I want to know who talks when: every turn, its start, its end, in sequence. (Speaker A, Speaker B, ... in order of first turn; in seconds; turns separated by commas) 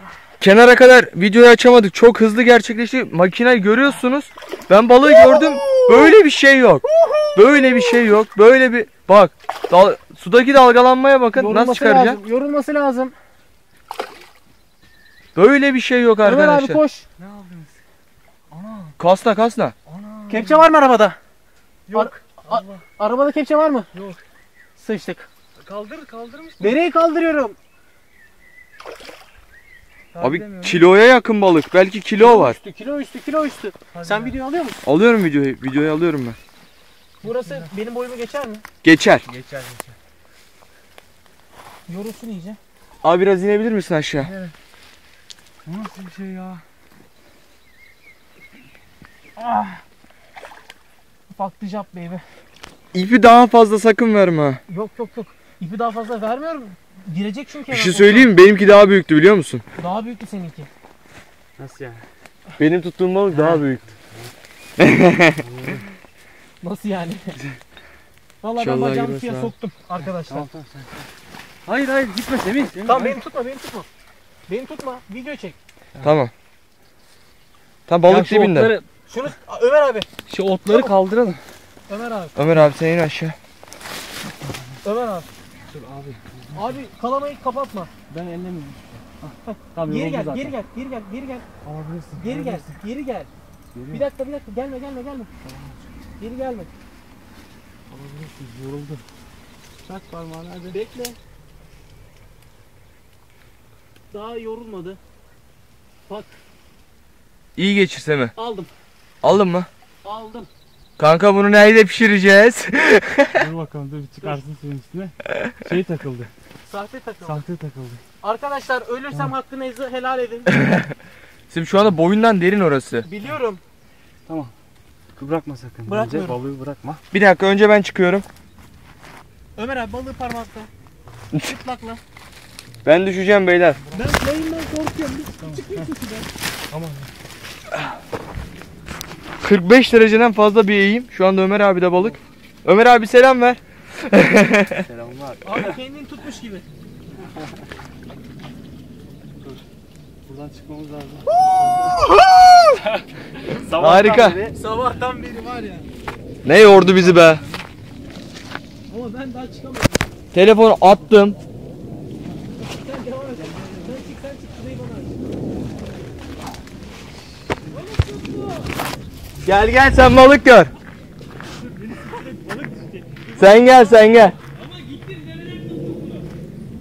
Speaker A: 0.4-12.2, Speaker B: 5.1-6.1, Speaker B: 6.9-7.3, Speaker B: 11.3-13.2, Speaker A: 15.3-16.8, Speaker B: 16.2-17.1, Speaker C: 17.2-17.8, Speaker C: 18.5-18.9, Speaker A: 19.0-19.8, Speaker C: 19.9-20.7, Speaker B: 20.3-21.2, Speaker C: 21.9-22.8, Speaker B: 21.9-23.9, Speaker C: 23.9-24.2, Speaker B: 24.8-25.3, Speaker C: 25.6-26.8, Speaker B: 26.6-27.6, Speaker C: 30.1-30.9, Speaker A: 30.2-32.6, Speaker B: 32.2-34.8, Speaker C: 33.9-34.4, Speaker A: 34.8-36.4, Speaker B: 37.2-38.6, Speaker C: 37.3-37.7, Speaker A: 38.8-39.3, Speaker C: 39.3-40.0, Speaker B: 41.9-42.6, Speaker A: 43.0-44.3, Speaker C: 44.2-44.5, Speaker C: 45.7-46.6, Speaker B: 49.4-49.8, Speaker B: 51.3-52.2, Speaker A: 52.9-54.6, Speaker B: 54.7-58.3, Speaker A: 57.7-59.6, Speaker B: 59.8-60.7, Speaker C: 61.6-62.0, Speaker A: 62.6-63.9, Speaker C: 63.4-64.3, Speaker A: 64.8-65.4, Speaker C: 65.4-65.8, Speaker B: 66.6-67.4, Speaker B: 68.4-70.5, Speaker A: 68.6-69.5, Speaker C: 70.1-71.1, Speaker C: 71.7-73.2, Speaker B: 72.8-73.9, Speaker B: 74.5-75.6, Speaker A: 76.0-76.3, Speaker A: 77.9-78.7, Speaker C: 78.0-78.8, Speaker B: 79.1-80.1, Speaker C: 80.3-81.4, Speaker B: 80.7-80.9, Speaker B: 81.9-82.3, Speaker A: 82.4-83.4, Speaker B: 84.8-85.3, Speaker C: 85.7-86.8, Speaker B: 86.5-87.9, Speaker C: 88.1-90.5, Speaker B: 89.5-91.5, Speaker C: 91.6-92.7, Speaker B: 92.2-93.3, Speaker C: 93.8-94.0, Speaker B: 93.9-95.3, Speaker C: 95.5-95.8, Speaker B: 96.2-96.7, Speaker C: 97.9-99.0, Speaker C: 99.8-100.8, Speaker B: 100.7-101.2, Speaker B: 104.1-105.0, Speaker B: 106.1-106.4, Speaker A: 107.6-108.3, Speaker B: 108.4-108.7, Speaker A: 109.2-109.7, Speaker B: 110.0-110.5, Speaker A: 111.0-113.5, Speaker C: 113.3-116.3, Speaker B: 116.7-117.4, Speaker C: 117.3-118.0, Speaker B: 118.2-120.5, Speaker A: 120.6-120.9, Speaker A: 121.5-123.1, Speaker B: 123.0-123.6, Speaker C: 124.3-124.5, Speaker C: 125.2-127.0, Speaker B: 125.9-126.4, Speaker A: 127.1-128.2, Speaker B: 129.6-130.7, Speaker B: 131.3-132.0, Speaker A: 132.8-133.8, Speaker B: 133.9-136.3, Speaker C: 135.4-135.9, Speaker C: 136.7-137.1, Speaker A: 139.4-144.8, Speaker C: 144.7-145.8, Speaker B: 145.4-146.7, Speaker C: 150.3-151.9, Speaker A: 152.1-152.7, Speaker C: 153.6-154.5, Speaker A: 153.7-154.4, Speaker B: 154.5-155.9, Speaker A: 156.4-157.4, Speaker C: 156.9-157.6, Speaker B: 158.9-160.1, Speaker A: 160.3-161.4, Speaker B: 162.5-165.2, Speaker C: 163.4-163.9, Speaker C: 167.8-168.5, Speaker A: 169.4-170.7, Speaker C: 171.7-173.5, Speaker A: 173.4-174.4, Speaker C: 174.6-176.2